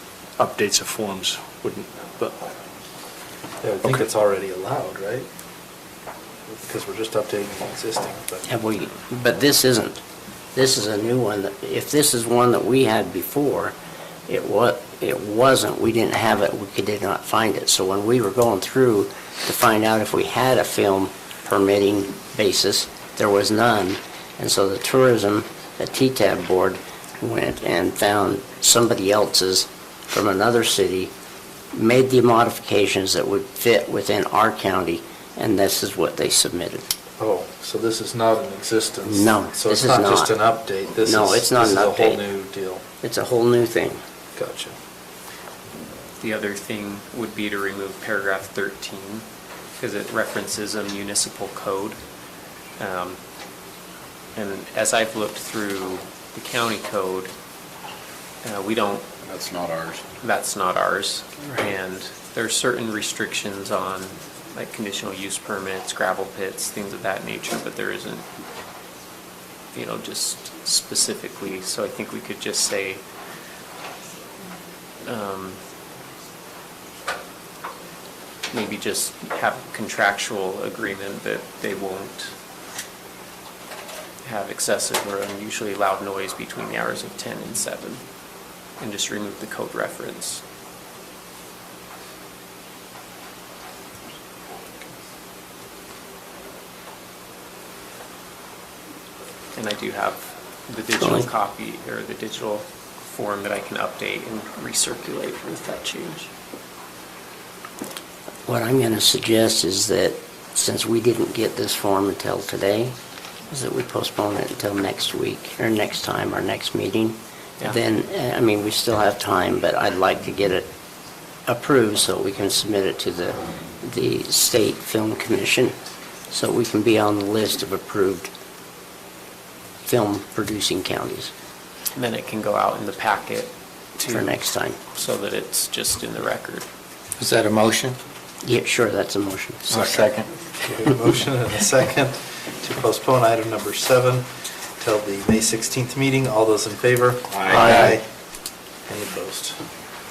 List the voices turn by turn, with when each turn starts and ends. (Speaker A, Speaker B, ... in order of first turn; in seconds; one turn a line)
Speaker A: 0.4-2.5
Speaker B: 3.6-5.3
Speaker B: 6.5-8.5
Speaker C: 8.4-10.0
Speaker C: 10.5-13.7
Speaker C: 14.3-31.1
Speaker C: 31.7-36.9
Speaker B: 37.2-42.8
Speaker C: 39.0-40.4
Speaker C: 41.0-42.2
Speaker C: 43.0-44.0
Speaker B: 44.4-44.7
Speaker D: 46.2-49.2
Speaker D: 49.8-52.0
Speaker D: 52.8-53.2
Speaker D: 54.4-57.3
Speaker D: 58.4-59.1
Speaker D: 60.2-68.2
Speaker D: 69.7-73.0
Speaker D: 75.0-75.6
Speaker D: 78.5-82.3
Speaker D: 84.2-88.0
Speaker D: 88.8-90.4
Speaker D: 99.5-106.3
Speaker C: 101.0-101.3
Speaker C: 108.5-113.0
Speaker C: 113.5-120.7
Speaker C: 121.5-125.8
Speaker C: 126.3-128.3
Speaker C: 129.8-131.3
Speaker D: 131.9-134.3
Speaker C: 134.1-134.8
Speaker D: 134.9-136.7
Speaker E: 137.2-138.0
Speaker C: 138.4-139.9
Speaker E: 139.7-140.3
Speaker B: 140.6-148.0
Speaker A: 147.4-148.0
Speaker E: 147.5-147.9
Speaker B: 148.9-149.6